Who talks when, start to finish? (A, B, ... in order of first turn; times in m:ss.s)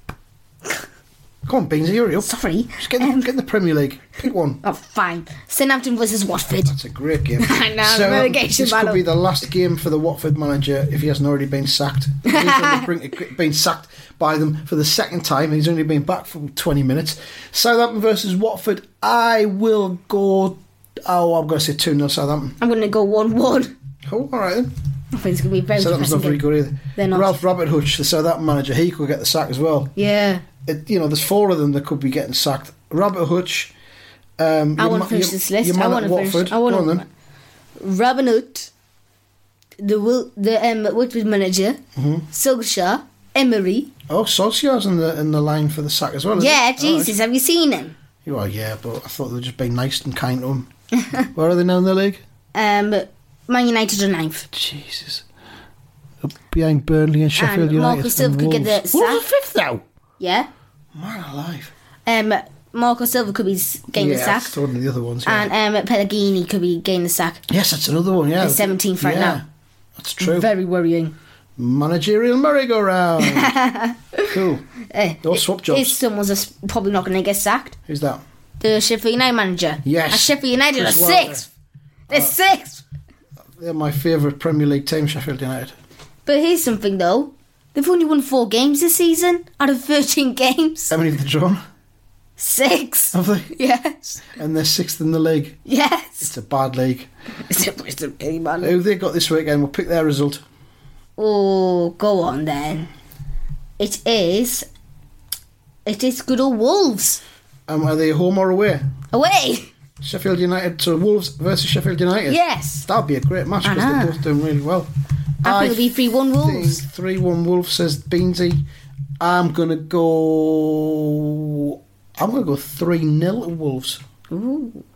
0:01.5-0:04.6 A
0:02.2-0:03.3 B
0:04.6-0:06.7 B
0:06.6-0:22.6 A
0:07.4-0:09.0 B
0:12.2-0:12.9 B
0:22.6-0:23.7 B
0:24.1-0:24.7 A
0:25.1-0:27.3 B
0:25.8-0:29.9 A
0:30.0-0:30.4 B
0:30.6-0:33.7 A
0:34.4-0:37.0 A
0:34.8-0:37.0 B
0:37.8-0:38.7 B
0:39.8-0:41.8 B
0:42.0-0:42.3 A
0:42.3-0:43.9 B
0:44.1-0:47.1 A
0:46.4-0:48.0 B
0:48.2-0:50.7 A
0:51.3-0:52.2 A
0:52.6-0:54.5 B
0:54.5-0:55.2 A
0:56.2-0:59.8 A
0:57.4-0:59.3 B
1:00.2-1:00.5 B
1:01.0-1:01.7 A
1:02.1-1:04.6 B
1:03.9-1:05.5 A
1:05.3-1:07.4 B
1:07.5-1:09.4 A
1:08.4-1:09.4 B
1:10.0-1:10.5 A
1:10.2-1:11.2 B
1:11.6-1:13.6 A
1:13.2-1:17.8 B
1:14.3-1:14.7 A
1:15.2-1:16.0 A
1:17.9-1:18.2 A
1:18.6-1:21.5 B
1:19.8-1:21.4 A
1:22.1-1:22.8 B
1:23.6-1:25.8 A
1:26.3-1:30.9 B
1:30.9-1:31.6 A
1:32.4-1:34.2 B
1:33.1-1:33.5 A
1:34.2-1:35.6 A
1:35.7-1:36.3 B
1:36.2-1:37.1 A
1:37.5-1:38.7 B
1:38.6-1:40.4 A
1:41.2-1:42.9 B
1:43.8-1:44.7 B
1:45.9-1:47.2 B
1:47.7-1:48.9 A
1:49.1-1:49.7 B
1:50.0-1:54.9 A
1:52.3-1:52.9 B
1:53.6-1:54.2 B
1:55.4-1:58.6 A
1:55.4-1:56.8 B
1:59.2-2:04.0 A
2:04.3-2:04.8 B